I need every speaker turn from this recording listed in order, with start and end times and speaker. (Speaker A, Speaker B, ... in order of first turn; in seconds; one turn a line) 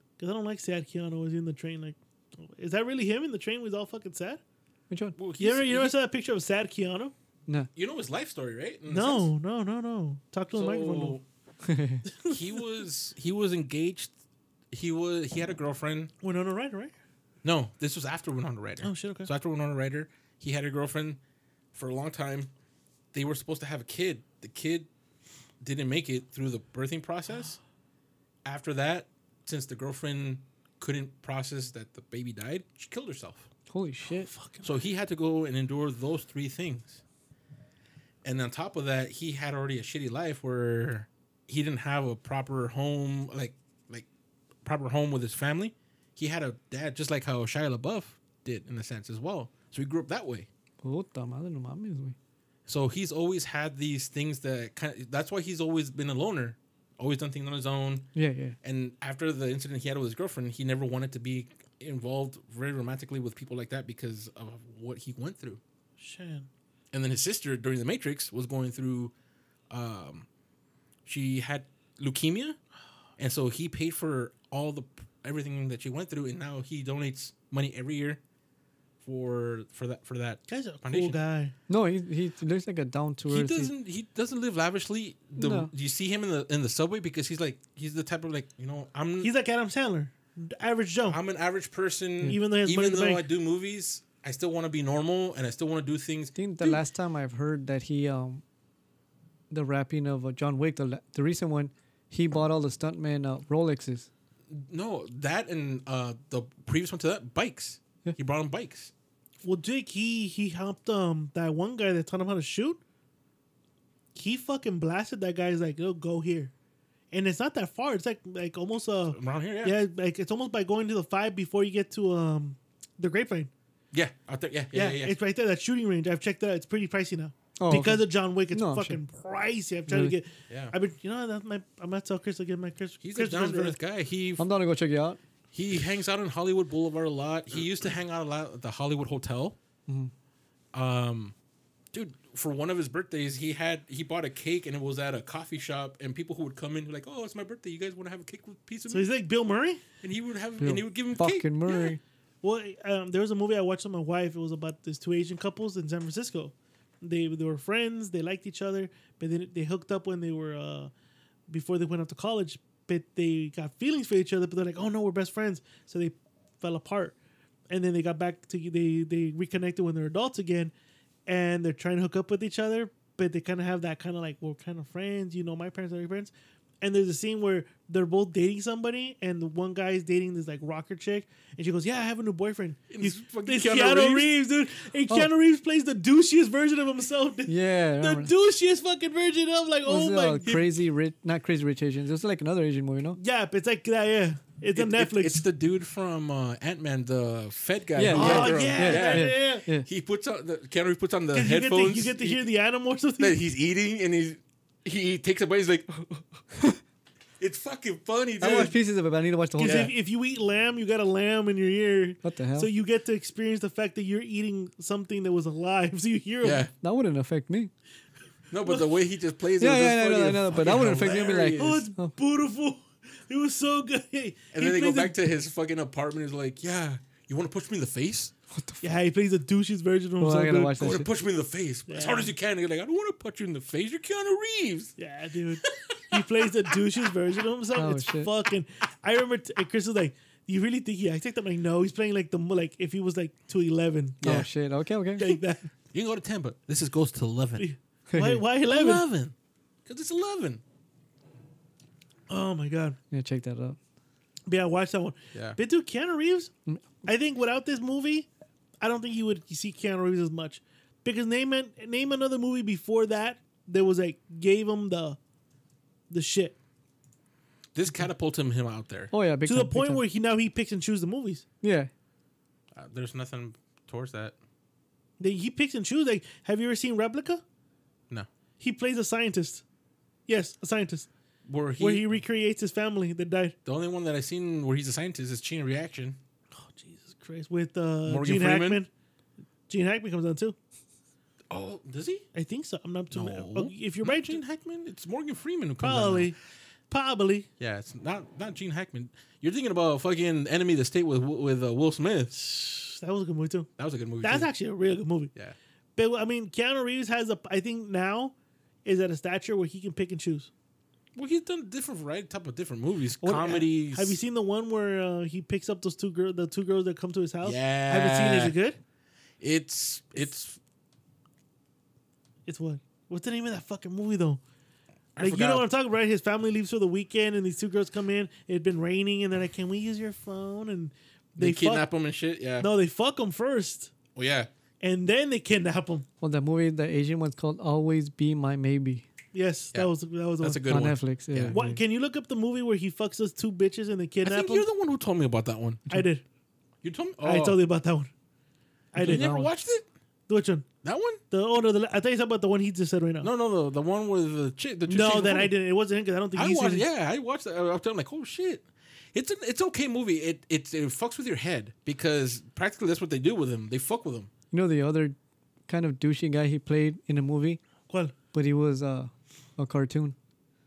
Speaker A: 0.2-4.4
Speaker B: 4.9-5.2
Speaker C: 5.2-6.0
Speaker A: 5.4-7.1
Speaker C: 7.8-9.3
Speaker A: 8.9-11.2
Speaker C: 10.5-11.2
Speaker B: 11.6-12.0
Speaker A: 12.1-12.4
Speaker C: 12.3-14.1
Speaker C: 14.7-16.1
Speaker A: 16.2-16.9
Speaker C: 17.4-21.2
Speaker A: 18.8-19.3
Speaker C: 21.7-22.5
Speaker C: 23.1-24.9
Speaker C: 25.6-27.6
Speaker C: 28.4-33.5
Speaker B: 33.7-34.3
Speaker A: 34.1-34.8
Speaker C: 34.6-37.0
Speaker C: 38.2-44.1
Speaker C: 44.6-50.5
Speaker B: 50.8-52.2
Speaker C: 52.7-58.1
Speaker B: 58.1-58.6
Speaker C: 58.6-65.6
Speaker A: 66.0-66.5
Speaker C: 66.9-69.1
Speaker C: 69.7-70.3
Speaker C: 71.1-72.6
Speaker C: 73.2-78.2
Speaker C: 79.0-81.2
Speaker A: 80.5-81.5
Speaker B: 81.7-83.7
Speaker C: 83.3-89.3
Speaker B: 85.4-85.7
Speaker A: 89.2-91.2
Speaker C: 91.1-96.8
Speaker A: 92.2-93.2
Speaker B: 96.4-98.4
Speaker B: 99.5-104.1
Speaker C: 104.5-108.9
Speaker A: 109.4-112.8
Speaker A: 114.2-116.5
Speaker A: 117.1-123.5
Speaker C: 119.1-119.8
Speaker C: 123.9-125.2
Speaker A: 124.7-133.8
Speaker B: 127.6-129.0
Speaker B: 129.9-130.2
Speaker C: 130.5-130.7
Speaker C: 133.0-134.5
Speaker B: 134.4-135.2
Speaker C: 135.5-139.6
Speaker B: 139.9-140.1
Speaker C: 140.7-141.3
Speaker C: 141.9-149.1
Speaker A: 148.9-149.8
Speaker C: 150.0-151.7
Speaker B: 150.6-152.0
Speaker A: 152.4-160.9
Speaker A: 161.5-167.2
Speaker A: 167.7-170.7
Speaker A: 171.3-190.8
Speaker C: 182.9-184.3
Speaker B: 187.5-188.3
Speaker B: 189.8-193.2
Speaker A: 193.2-195.4
Speaker C: 194.8-202.4
Speaker B: 198.0-199.9
Speaker A: 198.1-199.7
Speaker A: 201.3-203.4
Speaker C: 203.2-206.2
Speaker C: 207.4-208.8
Speaker B: 208.4-209.9
Speaker A: 209.6-216.7
Speaker C: 209.6-209.9
Speaker B: 212.2-212.7
Speaker C: 216.4-216.7
Speaker B: 216.8-217.7
Speaker C: 218.5-221.8
Speaker B: 219.6-222.1
Speaker A: 221.6-225.2
Speaker C: 224.5-228.3
Speaker B: 228.5-228.8
Speaker A: 228.8-230.9
Speaker B: 230.2-231.1
Speaker C: 230.8-234.9
Speaker A: 231.9-232.3
Speaker A: 235.0-244.2
Speaker C: 235.7-236.2
Speaker B: 237.8-238.3
Speaker C: 244.2-244.5
Speaker B: 244.2-245.4
Speaker A: 245.2-245.7
Speaker C: 245.9-247.7
Speaker A: 247.6-249.1
Speaker B: 248.1-248.4
Speaker C: 248.7-249.3
Speaker C: 249.9-250.6
Speaker A: 252.3-253.0
Speaker B: 253.1-253.8
Speaker A: 254.5-256.5
Speaker A: 257.1-258.3
Speaker A: 258.8-265.2
Speaker A: 266.1-266.6
Speaker C: 267.8-269.1
Speaker B: 269.1-270.0
Speaker A: 269.5-271.4
Speaker B: 271.6-271.9
Speaker C: 272.8-274.4
Speaker A: 275.2-277.4
Speaker A: 278.6-279.6
Speaker A: 280.3-281.1
Speaker C: 281.5-282.2
Speaker A: 281.8-283.6
Speaker C: 283.6-286.2
Speaker A: 286.5-288.9
Speaker C: 288.1-288.8
Speaker A: 289.7-290.6
Speaker C: 291.5-292.3
Speaker A: 292.3-294.4
Speaker C: 293.1-296.3
Speaker A: 295.8-296.4
Speaker A: 296.9-297.5
Speaker C: 297.6-302.4
Speaker A: 302.3-303.7
Speaker C: 303.8-304.5
Speaker A: 304.2-305.3
Speaker A: 306.0-310.5
Speaker C: 311.1-314.2
Speaker A: 313.2-318.8
Speaker C: 317.4-318.6
Speaker C: 319.4-320.6
Speaker A: 322.5-324.4
Speaker C: 325.2-325.7
Speaker A: 325.2-331.9
Speaker C: 331.4-332.7
Speaker A: 332.6-333.9
Speaker C: 334.2-334.5
Speaker A: 334.8-336.1
Speaker B: 336.2-339.1
Speaker A: 339.3-340.7
Speaker C: 339.7-341.6
Speaker B: 340.7-341.8
Speaker A: 341.5-344.7
Speaker C: 344.2-346.0
Speaker A: 345.9-346.2
Speaker C: 346.8-347.6
Speaker A: 347.2-348.1
Speaker A: 348.9-349.3
Speaker B: 349.0-349.5
Speaker C: 349.0-349.9
Speaker A: 350.3-350.7
Speaker C: 350.8-351.2
Speaker A: 351.3-353.3
Speaker C: 353.2-355.5
Speaker A: 354.9-356.9
Speaker C: 356.4-364.3
Speaker B: 364.5-365.2
Speaker B: 365.7-367.6
Speaker B: 368.3-370.2